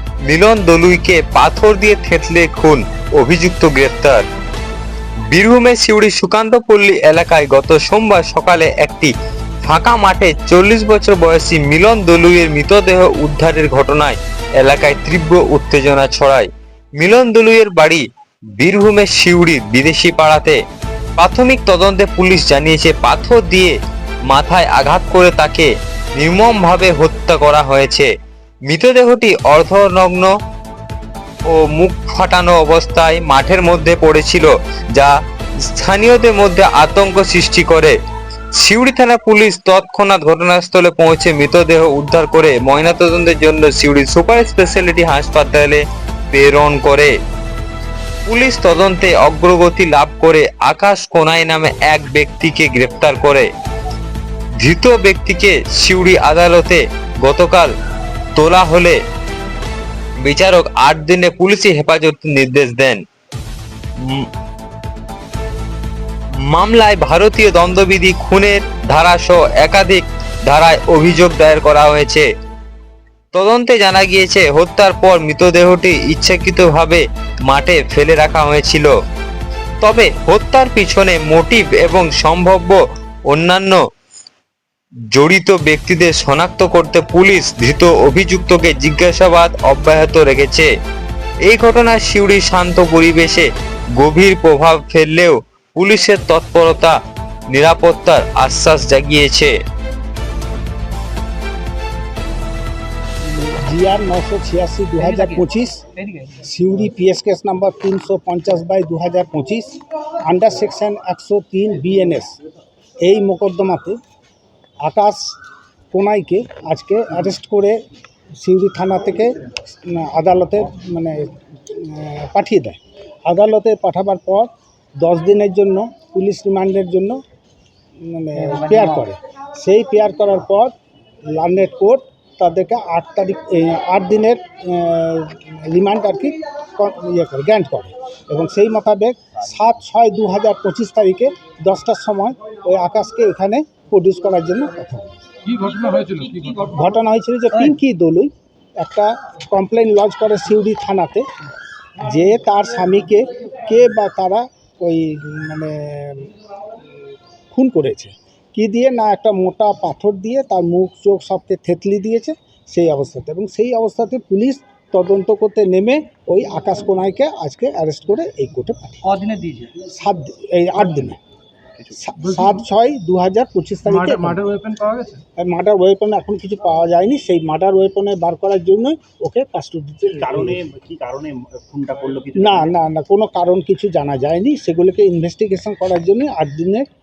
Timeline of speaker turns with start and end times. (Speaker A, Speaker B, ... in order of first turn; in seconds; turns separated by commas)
Speaker A: 0.2-4.2, Speaker A: 5.3-9.1, Speaker A: 9.6-16.5, Speaker A: 17.0-18.0, Speaker A: 18.6-20.6, Speaker A: 21.2-23.7, Speaker A: 24.3-28.1, Speaker A: 28.7-30.3, Speaker A: 31.5-38.0, Speaker A: 38.5-47.1, Speaker A: 48.3-53.5, Speaker A: 54.6-57.7, Speaker A: 58.3-59.0, Speaker A: 60.2-63.0, Speaker A: 64.0-64.3, Speaker A: 66.4-72.3, Speaker A: 73.3-78.9, Speaker A: 79.8-83.8, Speaker A: 85.1-90.7, Speaker A: 91.5-97.0, Speaker A: 97.5-99.6, Speaker B: 103.2-105.8, Speaker C: 105.0-106.4, Speaker B: 106.4-112.3, Speaker B: 113.0-114.0, Speaker B: 114.8-115.3, Speaker B: 115.9-117.8, Speaker B: 118.4-127.2, Speaker B: 128.0-130.7, Speaker C: 128.3-129.1, Speaker B: 131.3-145.1, Speaker D: 145.4-146.7, Speaker B: 146.6-151.2, Speaker B: 152.0-156.3, Speaker B: 157.5-169.1, Speaker C: 169.0-169.7, Speaker B: 169.8-171.2, Speaker B: 171.9-174.4, Speaker D: 172.2-172.6, Speaker D: 173.8-175.2, Speaker B: 175.4-180.6, Speaker E: 180.2-182.7, Speaker B: 182.3-186.8